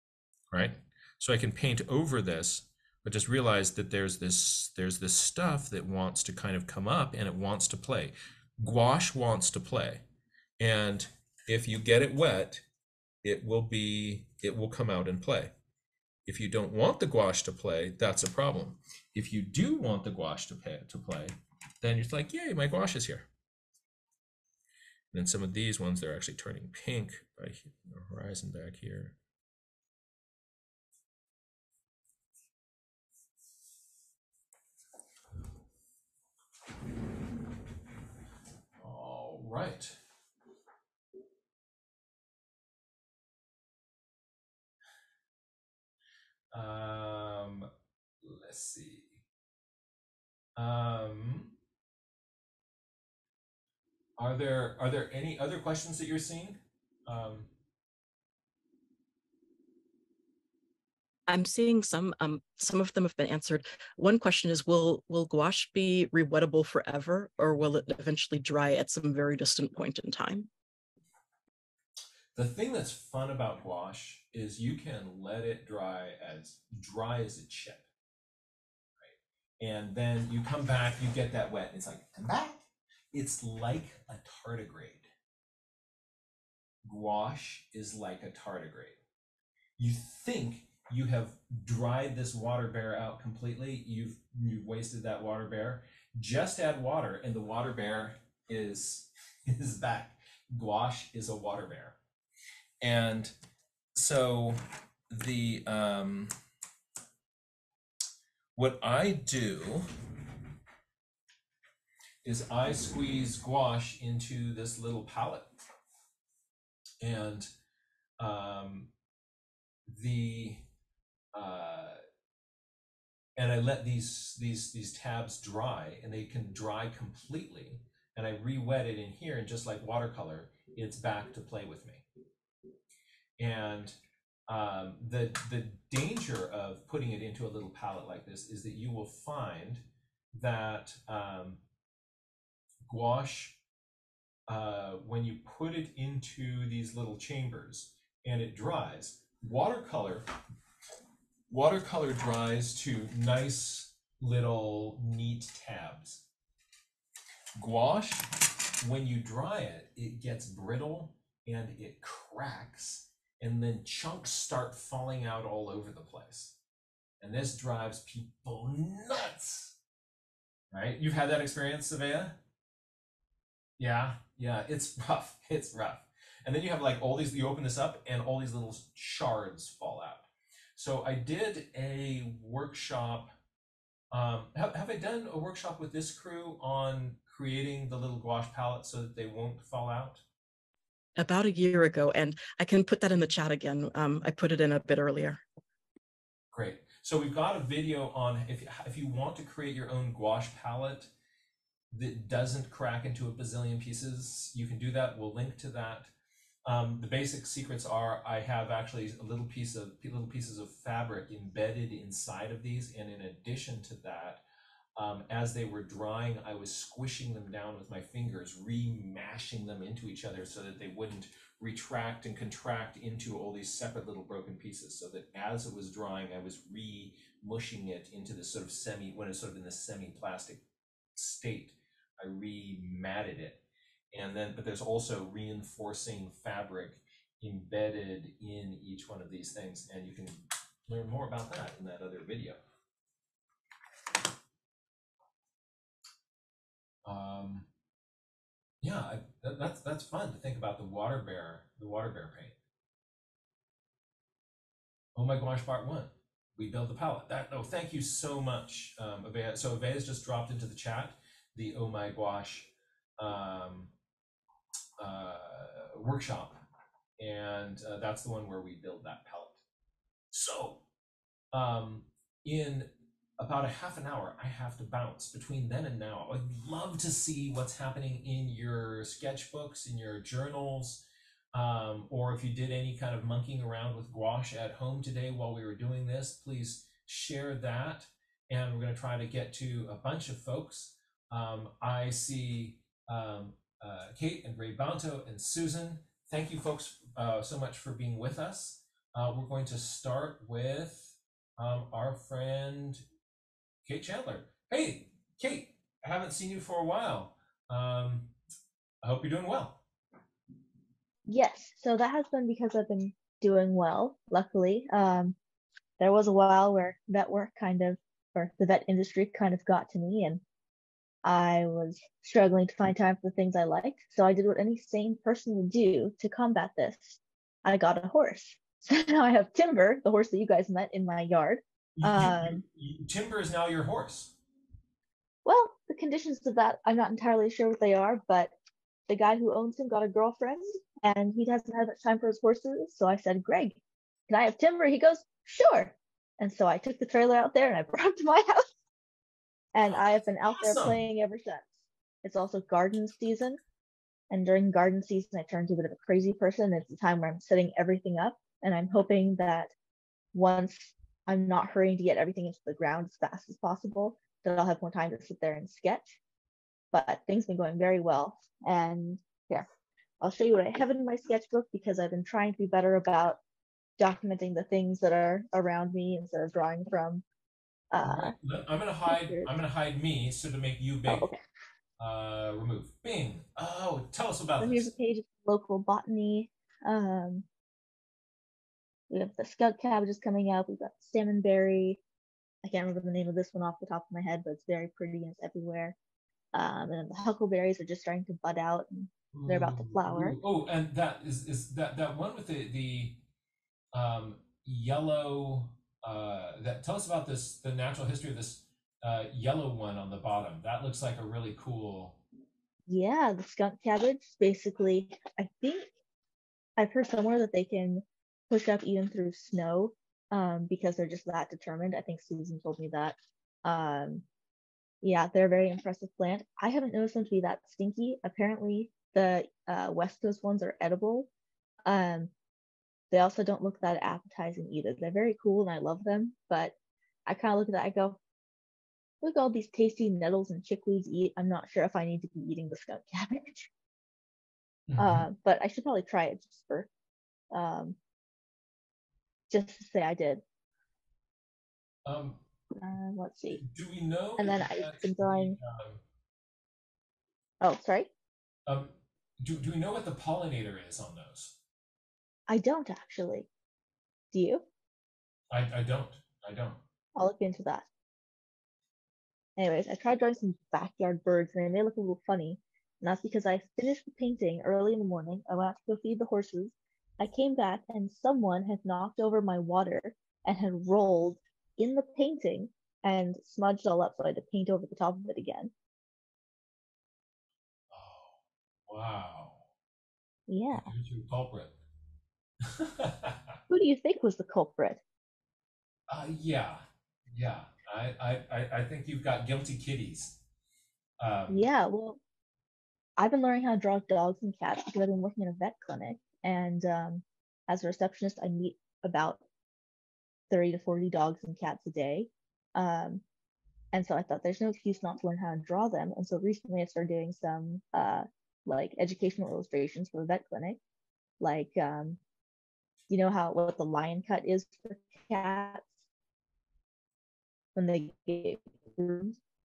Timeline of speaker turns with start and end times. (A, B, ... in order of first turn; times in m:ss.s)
0:00.5-0:10.0 A
0:10.6-0:12.6 A
0:13.2-0:15.5 A
0:16.3-0:23.3 A
0:25.1-0:29.1 A
0:38.8-0:40.0 A
0:46.5-0:47.7 A
0:48.2-0:49.2 A
0:50.6-0:51.5 A
0:54.2-0:57.5 A
1:01.3-1:10.5 B
1:12.3-1:17.8 A
1:19.0-1:22.6 A
1:23.1-1:25.0 A
1:26.8-1:29.0 A
1:29.8-1:42.0 A
1:42.8-1:43.3 A
1:43.9-1:46.3 A
1:48.6-1:49.8 A
1:52.2-1:55.5 A
1:57.0-1:57.5 A
1:58.2-1:58.9 A
1:59.9-2:00.6 A
2:01.3-2:02.0 A
2:03.4-2:12.0 A
2:13.4-2:14.0 A
2:14.5-2:21.6 A
2:22.9-2:23.6 A
2:24.5-2:30.2 A
2:31.5-2:36.2 A
2:37.6-2:38.3 A
2:38.8-2:46.5 A
2:47.2-2:49.7 A
2:50.7-2:52.4 A
2:53.8-3:03.3 A
3:04.1-3:10.2 A
3:11.2-3:15.4 B
3:16.5-3:21.1 A
3:21.9-3:26.1 A
3:26.6-3:34.4 A
3:35.0-3:50.6 A
3:51.1-3:53.6 A
3:54.1-4:02.6 A
4:07.0-4:07.6 A
4:08.8-4:12.5 A
4:15.1-4:23.9 A
4:25.0-4:26.6 A
4:27.2-4:29.6 A
4:30.3-4:30.8 A
4:31.5-5:03.0 A
5:03.8-5:08.3 A
5:09.0-5:09.8 A
5:11.3-5:15.4 C
5:16.0-5:20.4 C
5:21.2-5:32.6 C
5:32.0-5:34.3 A
5:35.4-5:38.5 C
5:39.1-5:43.8 C
5:44.3-5:48.7 C
5:49.7-5:51.7 C
5:49.8-5:51.0 A
5:52.2-5:53.6 C
5:54.3-5:59.7 C
6:00.3-6:06.2 C
6:06.9-6:09.6 C
6:10.2-6:13.4 C
6:14.0-6:17.2 C
6:17.9-6:18.3 C
6:18.0-6:21.3 A
6:19.1-6:19.5 C
6:21.1-6:21.4 C
6:22.0-6:24.9 A
6:24.6-6:27.4 C
6:29.1-6:32.0 C
6:32.6-6:36.0 C
6:36.5-6:40.4 C
6:39.3-6:43.2 A
6:43.9-6:52.2 A
6:52.9-6:55.9 C
6:56.8-7:04.2 C
7:05.0-7:11.3 C
7:11.8-7:12.3 C
7:13.1-7:16.7 C
7:17.2-7:18.2 C
7:19.2-7:23.7 C
7:24.9-7:25.3 A
7:25.0-7:26.9 C
7:27.5-7:28.0 C
7:29.5-7:30.4 C
7:32.0-7:32.4 A
7:32.8-7:33.6 C
7:33.6-7:36.0 A
7:34.4-7:35.6 C
7:37.6-7:38.1 C
7:38.7-7:41.5 A
7:42.5-7:43.5 C
7:44.3-7:44.6 C
7:45.5-7:46.8 A
7:47.1-7:47.8 C
7:49.6-8:05.7 C
8:07.9-8:08.4 A
8:08.9-8:09.6 A
8:10.5-8:10.9 C
8:10.7-8:11.8 A
8:12.6-8:13.6 A
8:13.7-8:15.0 C
8:16.1-8:20.4 A
8:21.2-8:21.6 A
8:21.5-8:22.2 C
8:23.2-8:29.4 C
8:30.5-8:33.2 C
8:33.9-8:40.8 C
8:41.4-8:42.2 C
8:43.1-8:45.9 C
8:47.7-8:49.4 C